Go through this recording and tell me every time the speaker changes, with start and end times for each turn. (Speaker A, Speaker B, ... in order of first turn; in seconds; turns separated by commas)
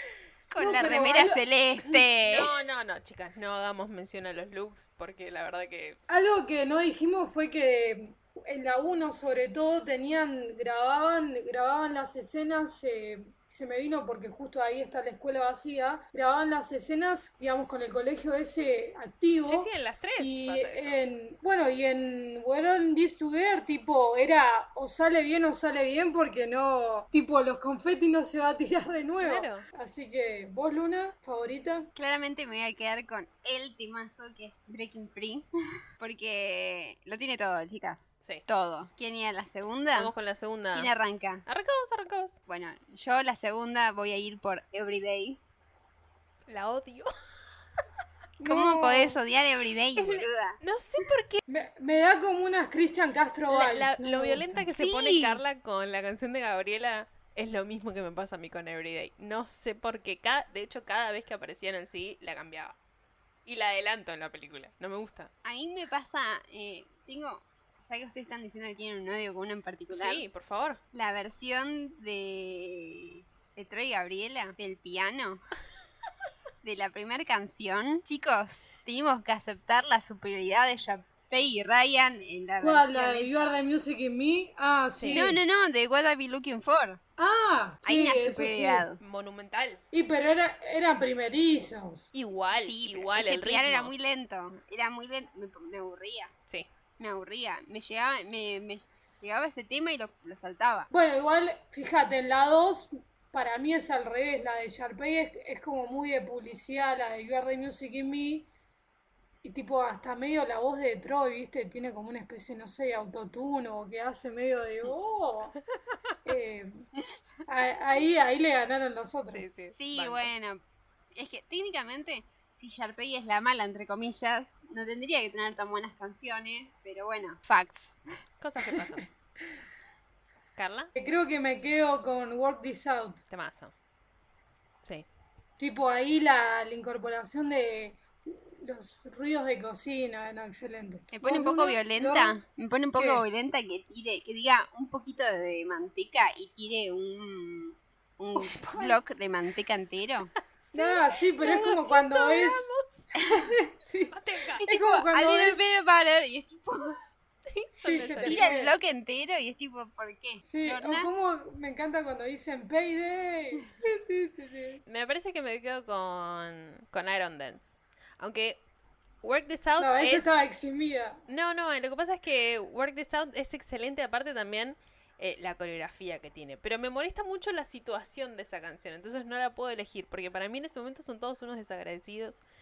Speaker A: 0.5-2.5, Speaker B: 0.6-1.4, Speaker C: 2.2-6.0, Speaker B: 6.1-31.9, Speaker C: 19.4-21.0, Speaker C: 29.2-29.6, Speaker A: 31.9-35.5, Speaker A: 36.0-40.1, Speaker C: 39.9-40.9, Speaker A: 40.7-41.4, Speaker C: 41.5-42.4, Speaker A: 42.5-45.4, Speaker C: 46.5-47.1, Speaker B: 48.4-49.2, Speaker A: 48.4-50.6, Speaker C: 50.0-51.4, Speaker B: 51.5-54.6, Speaker C: 53.5-62.8, Speaker A: 54.7-55.4, Speaker C: 63.5-65.3, Speaker A: 65.4-70.2, Speaker C: 69.9-70.8, Speaker A: 70.9-75.4, Speaker A: 76.6-83.6, Speaker B: 82.6-85.4, Speaker C: 85.0-85.3, Speaker A: 85.1-87.0, Speaker B: 87.2-88.9, Speaker A: 87.8-89.0, Speaker C: 89.0-89.8, Speaker B: 89.9-92.1, Speaker C: 92.1-93.9, Speaker A: 92.5-96.3, Speaker A: 97.0-100.9, Speaker B: 100.9-108.5, Speaker B: 109.4-115.5, Speaker B: 116.2-116.8, Speaker B: 117.4-119.5, Speaker C: 119.3-120.3, Speaker A: 119.7-120.6, Speaker A: 121.1-128.0, Speaker C: 128.4-129.1, Speaker C: 130.6-130.9, Speaker B: 131.0-133.2, Speaker C: 133.3-133.7, Speaker B: 135.6-142.4, Speaker A: 141.1-150.3, Speaker B: 142.9-143.2, Speaker B: 148.3-149.0, Speaker C: 150.5-153.1, Speaker B: 150.7-155.7, Speaker A: 153.2-153.5, Speaker C: 154.1-154.6, Speaker A: 154.6-156.9, Speaker C: 157.5-158.5, Speaker B: 157.7-158.7, Speaker A: 158.2-161.1, Speaker B: 160.4-164.8, Speaker C: 164.9-168.6, Speaker C: 169.2-170.3, Speaker B: 169.8-171.2, Speaker C: 171.3-182.4